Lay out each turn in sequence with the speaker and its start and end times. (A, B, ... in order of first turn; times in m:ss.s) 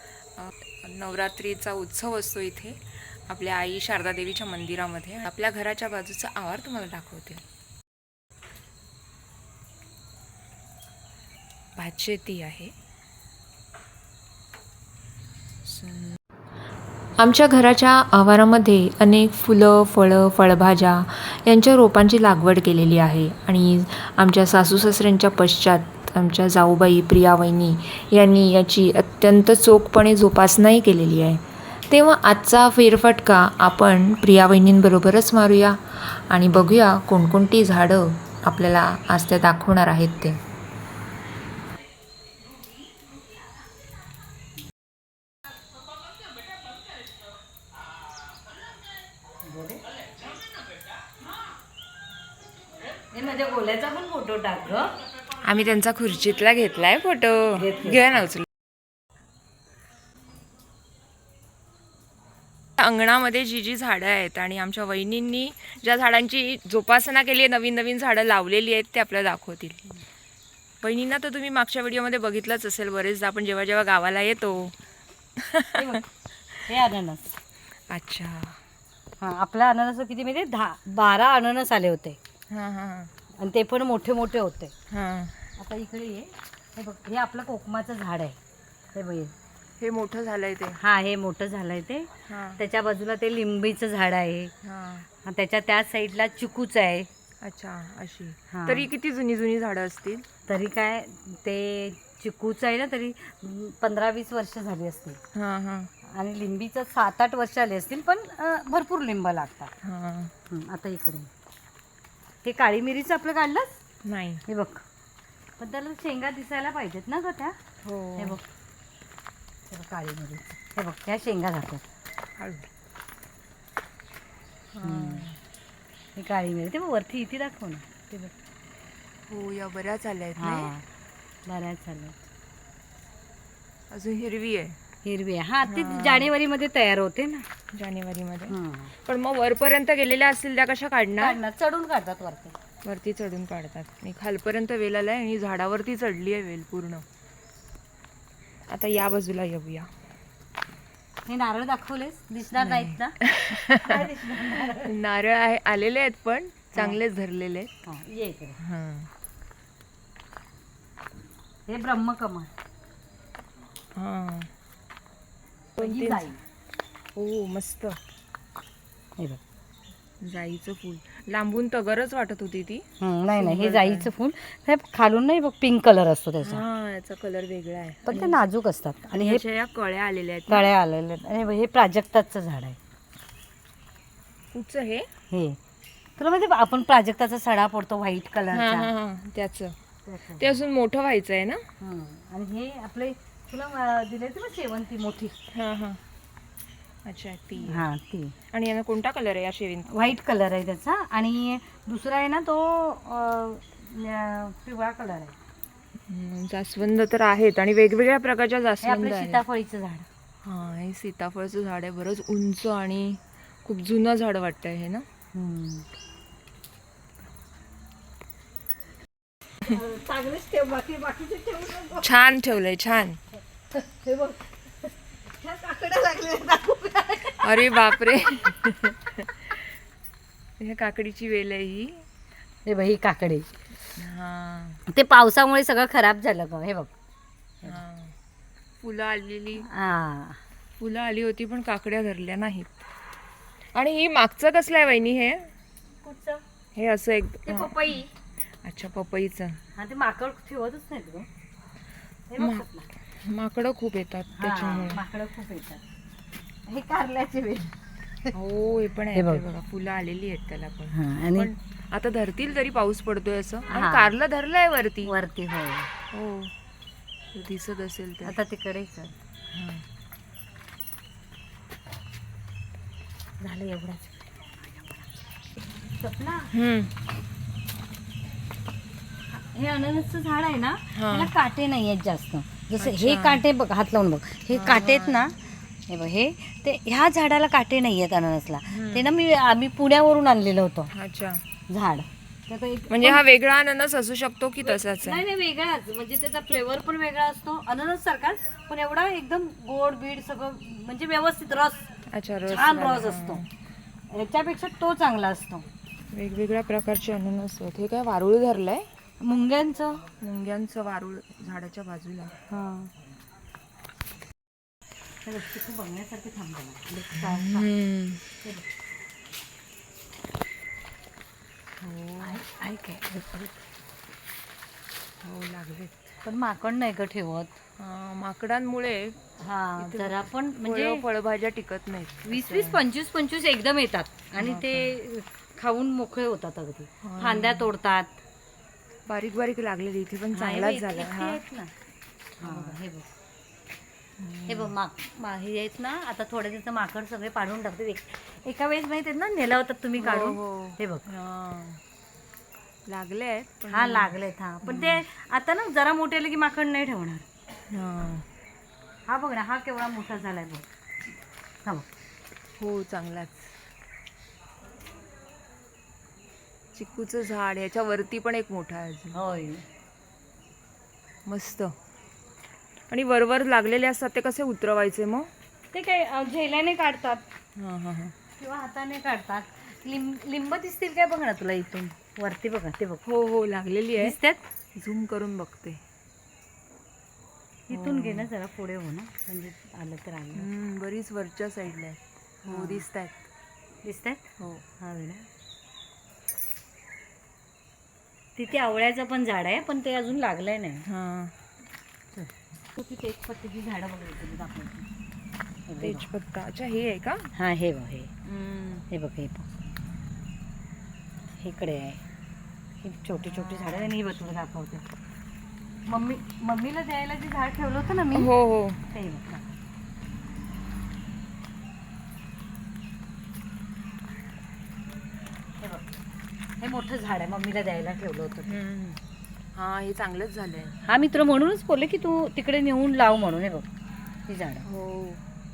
0:00.3-0:07.4 A
0:11.8-0:12.7 A
0:15.6-0:16.2 A
0:17.2-0:40.4 A
0:49.4-0:49.8 B
0:53.1-0:55.0 B
0:55.4-0:58.4 A
0:57.6-0:58.2 B
1:02.8-1:09.8 A
1:10.8-1:14.8 A
1:15.4-1:16.0 A
1:15.7-1:16.1 B
1:16.6-1:17.4 B
1:17.9-1:18.6 A
1:19.2-1:22.2 B
1:22.5-1:23.1 A
1:23.4-1:24.7 B
1:24.9-1:25.4 A
1:25.6-1:28.4 B
1:28.9-1:29.3 B
1:29.8-1:30.8 A
1:30.8-1:34.5 B
1:32.3-1:32.6 A
1:34.6-1:35.1 A
1:35.2-1:37.1 B
1:37.4-1:40.2 A
1:38.5-1:38.9 B
1:40.5-1:45.2 B
1:45.3-1:45.9 A
1:46.0-1:49.7 B
1:49.8-1:50.3 A
1:50.5-1:51.3 B
1:52.4-1:53.8 B
1:54.0-1:54.4 A
1:54.5-1:54.8 B
1:55.6-1:57.6 B
1:57.8-1:58.4 A
1:58.2-1:58.4 B
1:59.7-2:01.8 B
2:02.4-2:02.7 A
2:04.7-2:05.4 A
2:04.8-2:05.3 B
2:06.1-2:08.3 B
2:09.3-2:10.7 A
2:10.4-2:10.8 B
2:11.4-2:12.2 B
2:13.9-2:14.8 A
2:15.0-2:17.5 B
2:15.6-2:16.3 A
2:17.7-2:21.4 A
2:18.5-2:18.9 B
2:21.2-2:22.6 B
2:22.8-2:27.0 A
2:28.7-2:29.9 A
2:31.2-2:34.9 B
2:32.6-2:37.7 A
2:36.7-2:37.0 B
2:37.8-2:38.6 B
2:38.6-2:39.1 A
2:41.7-2:42.5 B
2:43.9-2:44.5 A
2:45.8-2:46.3 A
2:45.8-2:46.4 B
2:47.1-2:48.0 A
2:50.2-2:54.1 A
2:53.0-2:56.6 B
2:56.4-2:58.4 A
2:58.0-2:59.4 B
2:59.1-3:00.7 A
3:00.5-3:02.8 B
3:04.5-3:05.1 A
3:05.3-3:05.6 B
3:06.2-3:08.9 B
3:08.5-3:09.7 A
3:10.0-3:10.6 B
3:10.4-3:11.6 A
3:11.8-3:15.4 B
3:15.5-3:16.0 A
3:17.0-3:17.9 A
3:17.7-3:18.3 B
3:18.5-3:20.1 A
3:19.9-3:25.4 B
3:26.1-3:29.4 A
3:28.8-3:30.1 B
3:30.4-3:35.0 A
3:35.3-3:35.8 B
3:39.6-3:42.1 B
3:42.0-3:43.2 A
3:43.7-3:47.9 B
3:47.4-3:49.5 A
3:50.6-3:52.0 A
3:52.6-3:53.5 B
3:54.0-3:54.8 A
3:54.9-3:56.9 B
3:57.6-3:58.1 A
3:58.8-3:59.6 A
3:59.6-4:00.4 B
4:00.8-4:02.8 A
4:03.7-4:05.5 A
4:06.0-4:06.4 B
4:06.7-4:08.0 A
4:07.5-4:08.1 B
4:08.6-4:09.6 A
4:09.7-4:11.3 B
4:12.3-4:12.9 B
4:12.4-4:12.6 A
4:13.2-4:15.0 A
4:14.4-4:15.8 B
4:16.6-4:18.3 B
4:18.3-4:25.2 A
4:19.1-4:19.4 B
4:20.9-4:21.5 B
4:23.7-4:24.1 B
4:25.0-4:25.9 B
4:26.1-4:26.5 A
4:27.3-4:28.4 A
4:28.2-4:29.1 B
4:29.5-4:29.8 A
4:33.4-4:35.0 B
4:36.0-4:36.5 B
4:36.5-4:36.9 A
4:39.3-4:50.9 B
4:40.9-4:41.3 A
4:42.8-4:43.4 A
4:44.5-4:45.3 A
4:48.7-4:49.1 A
4:50.9-4:51.4 A
4:51.7-4:53.2 B
4:52.9-4:55.2 A
4:54.6-5:01.9 B
5:02.1-5:03.4 A
5:02.5-5:03.4 B
5:04.1-5:05.6 B
5:06.1-5:08.9 A
5:09.2-5:10.0 B
5:10.2-5:12.6 A
5:12.5-5:12.9 B
5:15.2-5:17.7 B
5:17.1-5:18.2 A
5:21.8-5:22.4 A
5:22.2-5:23.6 B
5:25.2-5:26.2 A
5:26.2-5:27.6 B
5:27.8-5:29.2 A
5:29.4-5:31.0 B
5:29.8-5:32.8 A
5:32.3-5:38.2 B
5:34.4-5:35.0 A
5:37.0-5:37.7 A
5:39.1-5:41.4 A
5:40.3-5:41.7 B
5:42.4-5:43.1 B
5:42.4-5:42.8 A
5:44.2-5:44.7 A
5:44.5-5:51.0 B
5:50.0-5:51.8 A
5:52.8-5:55.0 A
5:53.7-5:57.2 B
5:57.7-5:58.2 A
5:59.1-6:00.6 B
6:02.6-6:03.5 A
6:06.7-6:09.2 A
6:09.1-6:09.6 B
6:11.2-6:11.7 A
6:12.9-6:15.3 A
6:15.7-6:17.2 B
6:17.6-6:18.1 A
6:18.4-6:23.0 B
6:23.0-6:24.2 A
6:24.0-6:24.5 B
6:24.7-6:25.8 A
6:27.7-6:30.5 B
6:27.7-6:28.3 A
6:30.3-6:33.2 A
6:32.4-6:32.8 B
6:33.8-6:34.2 B
6:34.8-6:35.2 B
6:38.4-6:40.8 B
6:40.9-6:41.3 A
6:42.1-6:44.8 B
6:45.7-6:46.1 B
6:45.8-6:47.3 A
6:47.3-6:48.1 B
6:48.2-6:48.9 A
6:48.9-6:49.6 B
6:51.4-6:52.0 B
6:52.8-6:54.8 B
6:55.9-6:58.3 B
6:58.1-6:58.8 A
6:58.9-6:59.5 B
7:05.6-7:05.9 B
7:06.6-7:08.6 B
7:08.5-7:09.0 A
7:09.5-7:10.8 A
7:10.8-7:13.7 B
7:14.3-7:14.6 B
7:14.6-7:15.2 A